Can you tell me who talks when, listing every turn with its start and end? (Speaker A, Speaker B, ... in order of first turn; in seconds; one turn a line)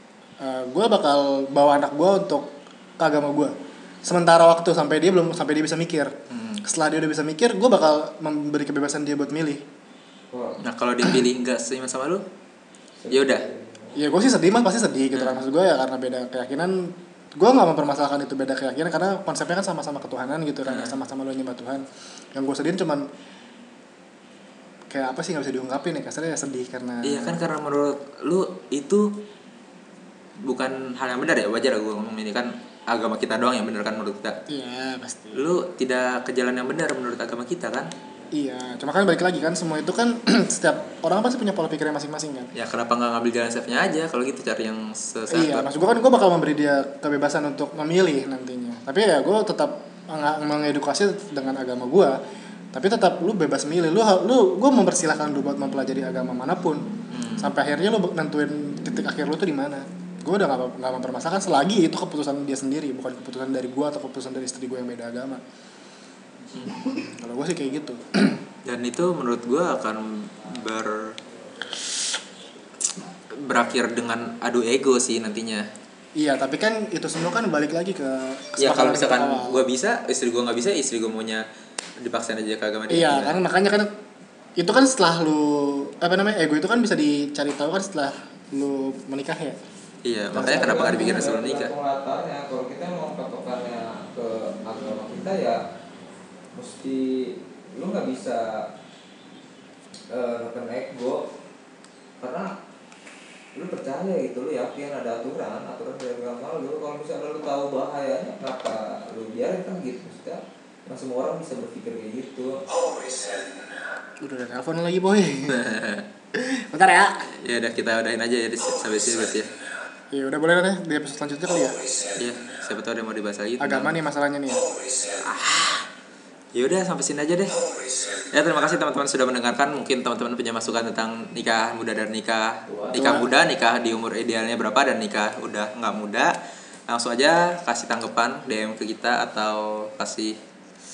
Speaker A: 0.4-6.1
Speaker B: 6.3-6.6
Speaker A: 6.6-9.6
Speaker C: 10.3-10.6
Speaker B: 10.6-12.2
Speaker C: 13.0-13.9
Speaker B: 13.1-13.4
Speaker A: 13.9-23.1
Speaker B: 15.1-15.4
Speaker B: 20.6-20.9
Speaker A: 24.9-27.4
Speaker B: 27.0-29.2
Speaker B: 30.4-34.4
Speaker A: 34.5-35.4
Speaker B: 35.3-37.9
Speaker A: 38.3-42.5
Speaker B: 42.5-45.7
Speaker A: 45.3-52.2
Speaker A: 52.7-56.8
Speaker B: 57.1-57.5
Speaker A: 57.4-65.4
Speaker A: 66.7-68.4
Speaker B: 68.6-71.2
Speaker B: 73.3-75.7
Speaker A: 76.2-79.6
Speaker B: 78.6-81.4
Speaker B: 82.0-83.4
Speaker A: 82.9-83.9
Speaker A: 84.6-89.6
Speaker B: 90.0-91.7
Speaker A: 90.3-91.2
Speaker C: 90.3-95.6
Speaker C: 96.5-98.7
Speaker C: 100.1-101.3
Speaker C: 102.2-102.5
Speaker C: 103.5-112.6
Speaker A: 114.2-115.6
Speaker B: 115.5-116.1
Speaker A: 116.3-117.2
Speaker B: 117.3-119.5
Speaker A: 120.1-121.8
Speaker B: 122.1-124.0
Speaker A: 123.6-124.8
Speaker B: 125.1-125.9
Speaker B: 126.5-127.6
Speaker B: 128.1-136.3
Speaker C: 132.7-133.0
Speaker A: 132.9-133.3
Speaker B: 136.9-140.4